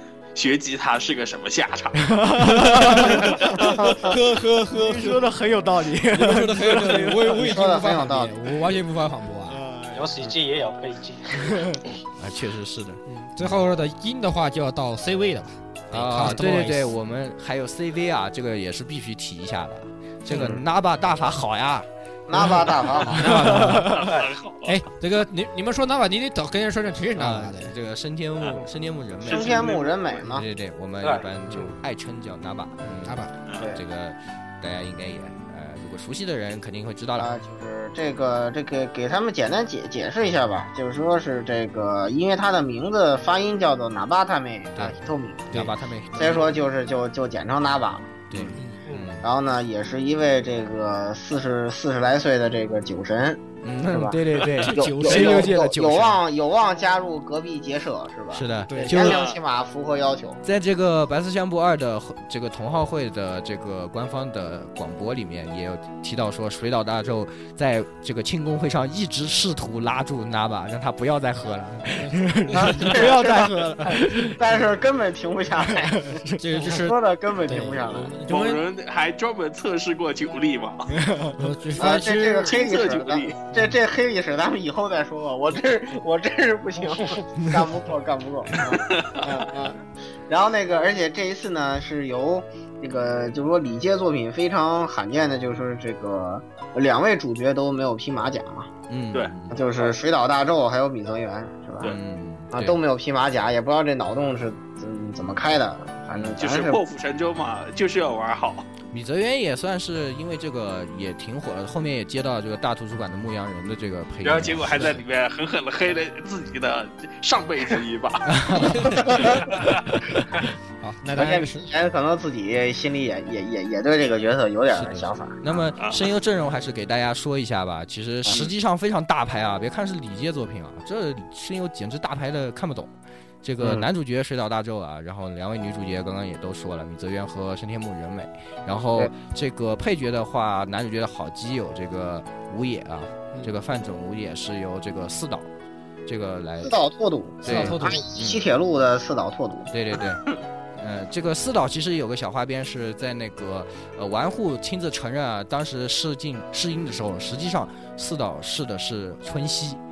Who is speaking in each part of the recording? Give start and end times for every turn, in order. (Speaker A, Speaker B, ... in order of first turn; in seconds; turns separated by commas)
Speaker A: 0.3-2.1, Speaker B: 2.0-4.2, Speaker C: 2.5-5.2, Speaker D: 3.5-4.1, Speaker B: 4.7-7.5, Speaker C: 6.1-9.6, Speaker D: 7.3-8.3, Speaker B: 9.5-10.2, Speaker E: 9.9-11.7, Speaker B: 11.4-13.6, Speaker C: 13.1-16.9, Speaker B: 15.9-24.1, Speaker D: 20.3-20.6, Speaker D: 22.3-23.6, Speaker C: 23.1-23.9, Speaker A: 23.9-24.7, Speaker C: 24.6-27.7, Speaker B: 27.2-29.7, Speaker D: 29.2-30.4, Speaker A: 29.2-29.9, Speaker B: 30.2-37.3, Speaker E: 31.0-31.7, Speaker C: 32.8-33.3, Speaker A: 33.5-33.7, Speaker D: 37.2-45.5, Speaker B: 44.8-46.6, Speaker D: 46.2-48.6, Speaker B: 48.3-49.3, Speaker C: 48.6-48.8, Speaker E: 48.9-49.1, Speaker D: 49.2-60.4, Speaker B: 53.6-56.2, Speaker C: 54.6-55.5, Speaker B: 58.3-59.2, Speaker C: 58.7-59.0, Speaker A: 59.0-59.4, Speaker B: 60.4-74.5, Speaker C: 72.0-73.1, Speaker D: 72.5-78.1, Speaker B: 75.6-76.4, Speaker C: 76.4-78.6, Speaker A: 78.3-81.0, Speaker B: 80.9-81.5, Speaker C: 81.3-82.5, Speaker D: 81.8-98.7, Speaker A: 82.5-83.4, Speaker A: 88.7-89.4, Speaker B: 98.9-99.6, Speaker D: 99.5-102.0, Speaker B: 101.8-102.8, Speaker D: 102.5-106.8, Speaker A: 106.4-108.7, Speaker B: 108.9-115.0, Speaker A: 114.2-118.4, Speaker B: 118.3-119.2, Speaker C: 118.6-119.1, Speaker A: 119.1-119.8, Speaker D: 119.1-119.4, Speaker B: 120.0-120.4, Speaker C: 120.8-121.7, Speaker D: 121.2-125.7, Speaker B: 124.7-145.5, Speaker D: 133.6-133.9, Speaker B: 146.1-146.8, Speaker D: 146.6-149.7, Speaker B: 147.4-148.5, Speaker C: 147.5-148.1, Speaker B: 149.7-150.2, Speaker B: 150.8-159.8